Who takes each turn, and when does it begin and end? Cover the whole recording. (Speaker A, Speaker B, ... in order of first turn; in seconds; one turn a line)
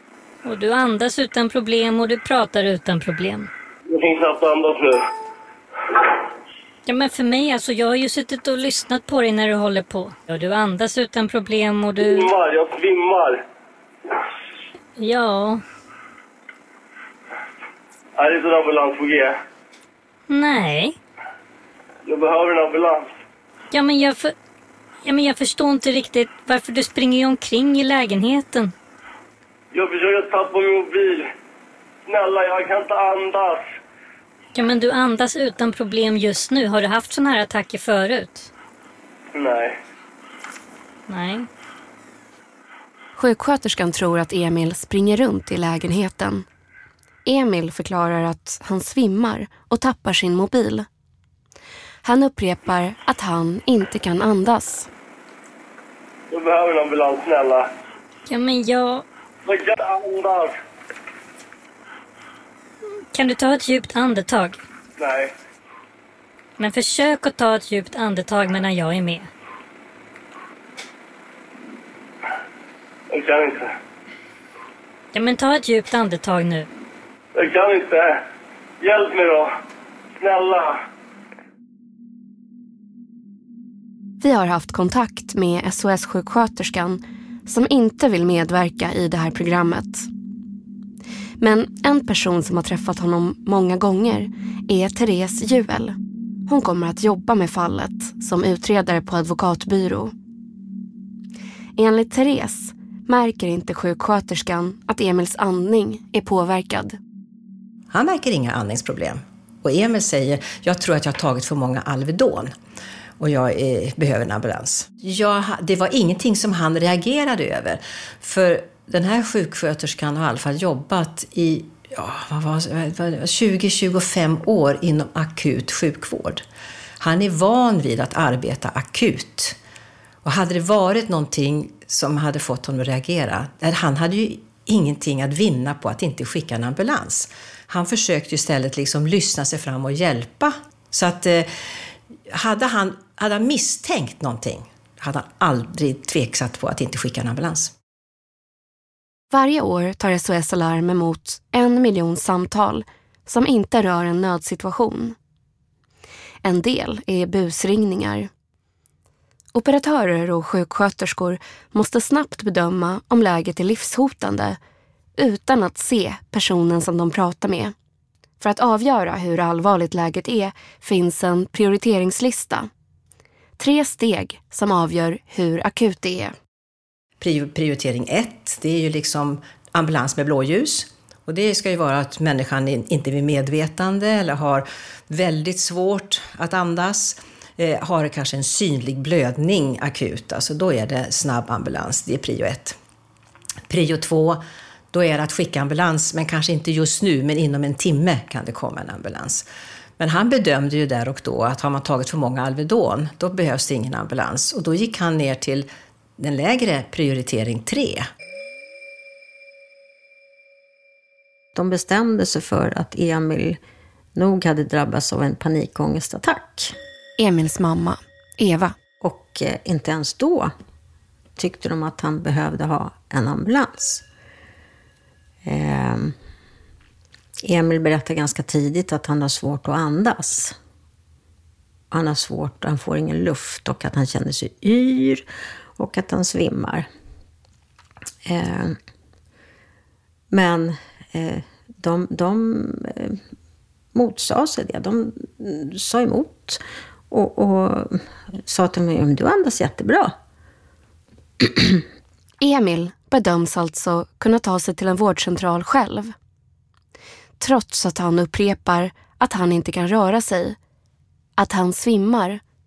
Speaker A: 0.4-3.5
Speaker B: 3.9-5.0
Speaker A: 6.9-12.3
Speaker B: 12.0-13.4
Speaker A: 15.0-15.6
Speaker B: 18.2-19.4
Speaker A: 20.3-21.0
Speaker B: 22.1-23.1
Speaker A: 23.7-24.3
Speaker A: 25.0-28.7
Speaker B: 29.7-31.3
Speaker B: 32.1-33.7
Speaker A: 34.5-38.5
Speaker B: 39.3-39.8
Speaker A: 41.1-41.5
Speaker C: 43.2-46.5
Speaker C: 47.2-50.9
Speaker C: 52.0-54.9
Speaker B: 56.3-57.7
Speaker A: 58.3-59.0
Speaker B: 59.5-60.6
Speaker A: 63.1-64.6
Speaker B: 65.0-65.3
Speaker A: 66.6-69.3
Speaker B: 73.1-73.7
Speaker A: 75.1-76.7
Speaker B: 77.4-78.2
Speaker B: 78.8-79.5
Speaker B: 80.2-80.8
Speaker C: 84.2-90.1
Speaker C: 91.4-96.0
Speaker C: 96.5-100.1
Speaker C: 101.8-107.0
Speaker D: 107.9-112.5
Speaker D: 113.2-126.4
Speaker D: 127.0-129.6
Speaker D: 130.2-141.5
Speaker D: 142.3-147.7
Speaker C: 149.3-155.2
Speaker C: 156.4-158.3
Speaker C: 159.5-164.6
Speaker C: 165.2-167.7
Speaker C: 168.4-172.7
Speaker C: 173.6-176.3
Speaker D: 177.2-192.8
Speaker D: 193.7-199.4
Speaker D: 200.0-208.1
Speaker E: 211.6-213.6
Speaker E: 214.2-216.8
Speaker C: 217.2-218.8
Speaker E: 219.0-220.5
Speaker E: 221.4-224.1
Speaker E: 225.4-226.2
Speaker E: 227.4-230.6
Speaker E: 231.9-236.9
Speaker E: 238.2-238.8
Speaker E: 240.3-243.2
Speaker E: 243.9-250.2
Speaker E: 251.4-251.8
Speaker C: 252.4-256.1
Speaker C: 257.4-260.6
Speaker C: 261.4-262.4